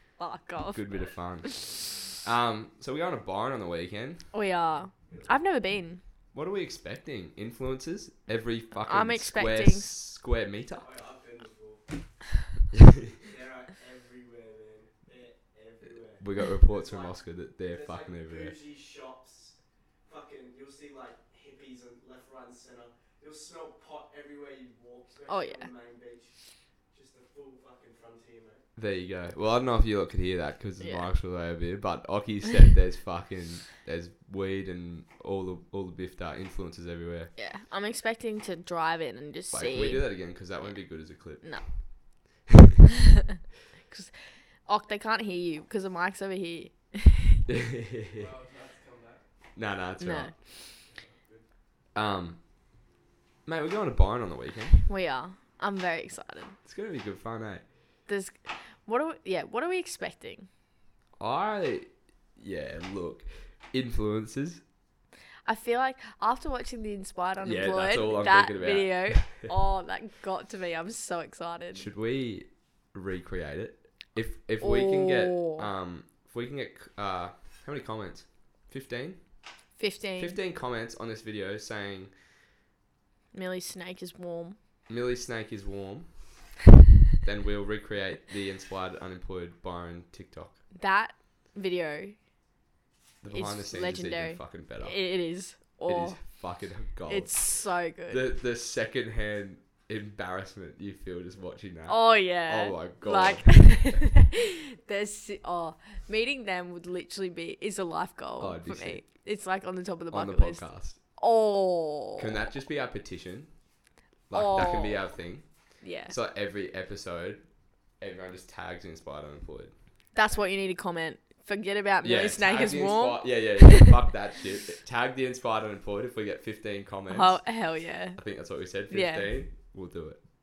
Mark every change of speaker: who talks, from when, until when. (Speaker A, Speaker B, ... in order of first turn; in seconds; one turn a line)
Speaker A: 0.2-1.7
Speaker B: 0.7-4.3
Speaker A: 4.3-6.0
Speaker B: 6.3-10.9
Speaker A: 8.9-9.9
Speaker C: 10.7-12.0
Speaker B: 12.7-13.1
Speaker C: 13.2-26.4
Speaker B: 16.2-18.6
Speaker A: 25.3-25.7
Speaker C: 26.9-28.6
Speaker B: 28.8-37.3
Speaker A: 30.8-31.1
Speaker A: 37.4-40.1
Speaker B: 39.5-41.8
Speaker B: 42.5-42.8
Speaker A: 43.9-47.4
Speaker B: 47.5-48.3
Speaker C: 48.1-49.3
Speaker B: 49.6-50.3
Speaker A: 50.0-50.4
Speaker C: 50.8-51.5
Speaker B: 52.0-52.4
Speaker B: 53.5-54.8
Speaker A: 54.9-56.6
Speaker B: 56.7-57.6
Speaker A: 58.1-60.5
Speaker B: 61.2-64.6
Speaker A: 65.5-71.9
Speaker B: 67.4-69.5
Speaker B: 71.7-79.2
Speaker A: 74.6-75.7
Speaker A: 79.8-80.4
Speaker B: 80.2-82.1
Speaker A: 83.3-84.6
Speaker B: 84.9-86.1
Speaker B: 87.2-90.6
Speaker A: 90.8-92.2
Speaker B: 93.2-95.0
Speaker A: 93.3-96.2
Speaker B: 95.9-97.5
Speaker A: 97.1-98.3
Speaker B: 98.1-103.9
Speaker A: 101.9-110.7
Speaker B: 108.4-109.0
Speaker B: 110.1-111.0
Speaker A: 111.2-112.3
Speaker B: 112.2-113.5
Speaker B: 114.3-115.5
Speaker A: 114.3-115.1
Speaker A: 115.8-116.1
Speaker B: 116.1-117.4
Speaker B: 118.0-119.7
Speaker A: 120.1-123.9
Speaker B: 122.0-127.4
Speaker A: 127.1-128.2
Speaker B: 128.2-130.2
Speaker A: 128.9-129.3